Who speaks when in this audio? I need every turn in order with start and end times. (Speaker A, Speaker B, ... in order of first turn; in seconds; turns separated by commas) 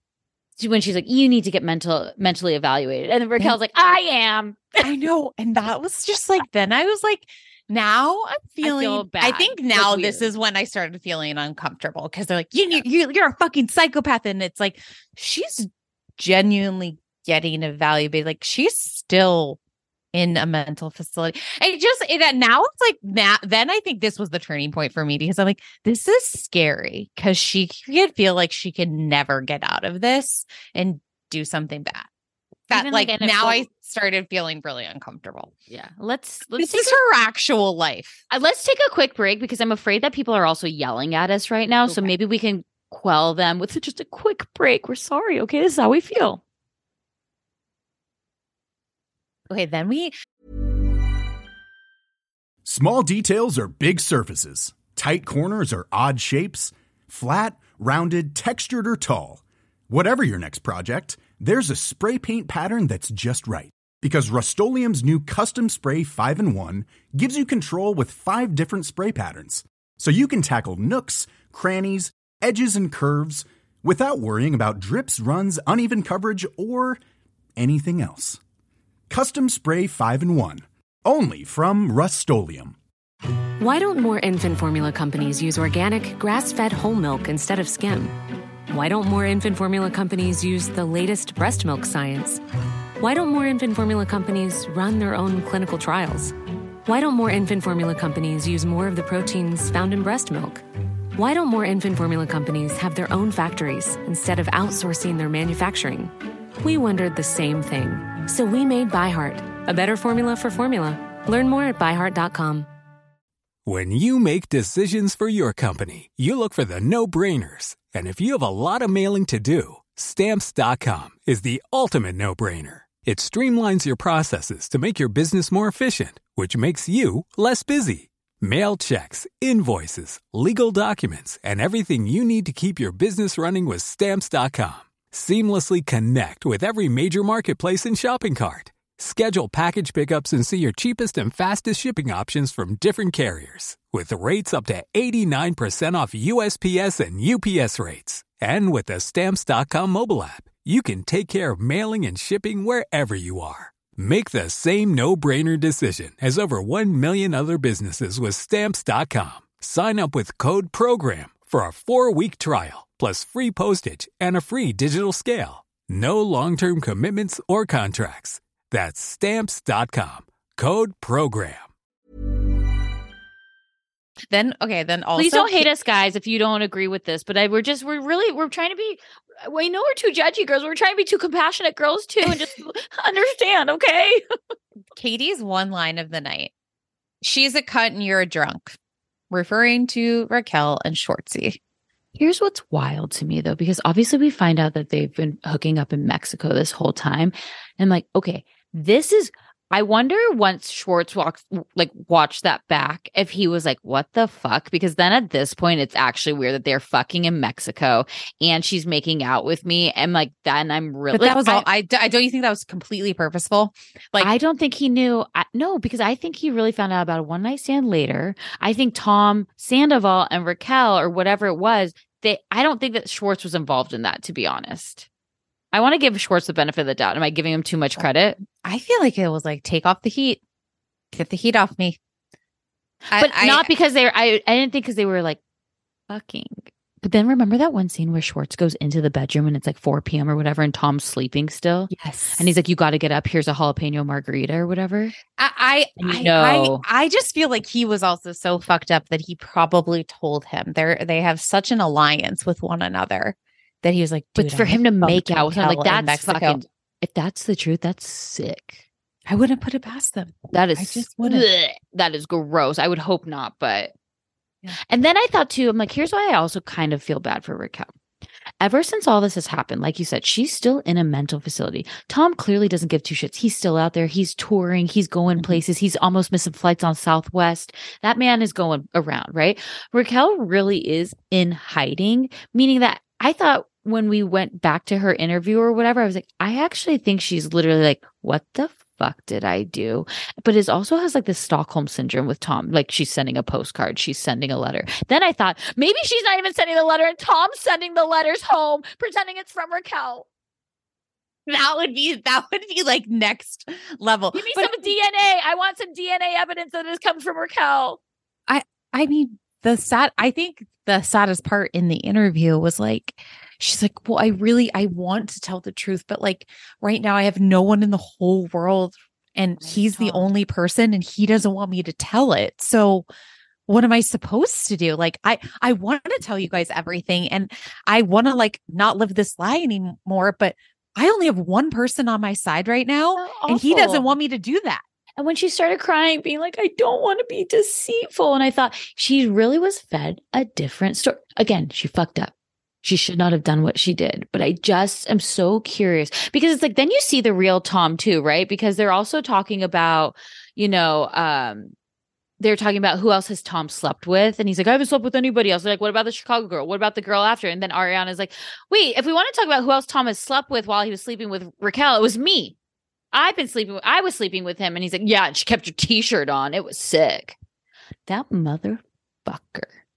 Speaker A: 0.6-4.8, Speaker B: 4.8-19.6, Speaker A: 8.6-10.3, Speaker B: 20.1-32.1, Speaker B: 32.7-35.5, Speaker A: 32.7-33.6, Speaker A: 35.7-37.0, Speaker B: 36.5-38.2, Speaker A: 38.3-46.4, Speaker B: 41.9-42.1, Speaker B: 49.5-50.1, Speaker C: 52.6-77.0, Speaker C: 77.6-78.4, Speaker C: 79.1-82.8, Speaker D: 83.6-88.2, Speaker D: 88.7-92.4, Speaker D: 93.0-100.6, Speaker D: 101.1-112.7, Speaker E: 113.7-171.7, Speaker B: 174.3-175.7, Speaker A: 175.2-184.2, Speaker B: 184.9-186.5, Speaker B: 187.2-188.8, Speaker B: 189.3-191.6, Speaker A: 192.2-211.7, Speaker B: 211.1-214.3, Speaker A: 214.2-225.1, Speaker A: 225.7-228.4, Speaker B: 228.0-230.4, Speaker B: 231.1-232.0, Speaker B: 233.1-233.7, Speaker A: 233.1-235.4, Speaker A: 236.1-245.1, Speaker B: 241.9-242.5, Speaker B: 245.3-256.6, Speaker A: 246.0-246.8, Speaker A: 254.3-258.8, Speaker B: 259.2-261.5, Speaker A: 260.5-263.9, Speaker A: 264.8-267.9, Speaker A: 268.6-300.2, Speaker B: 301.4-305.0, Speaker A: 304.3-308.0, Speaker B: 308.5-323.1, Speaker A: 319.6-320.3, Speaker B: 323.7-334.8, Speaker A: 333.1-334.1, Speaker A: 335.2-342.3, Speaker A: 342.8-351.7, Speaker A: 352.4-362.6, Speaker A: 363.1-367.4, Speaker A: 368.1-369.8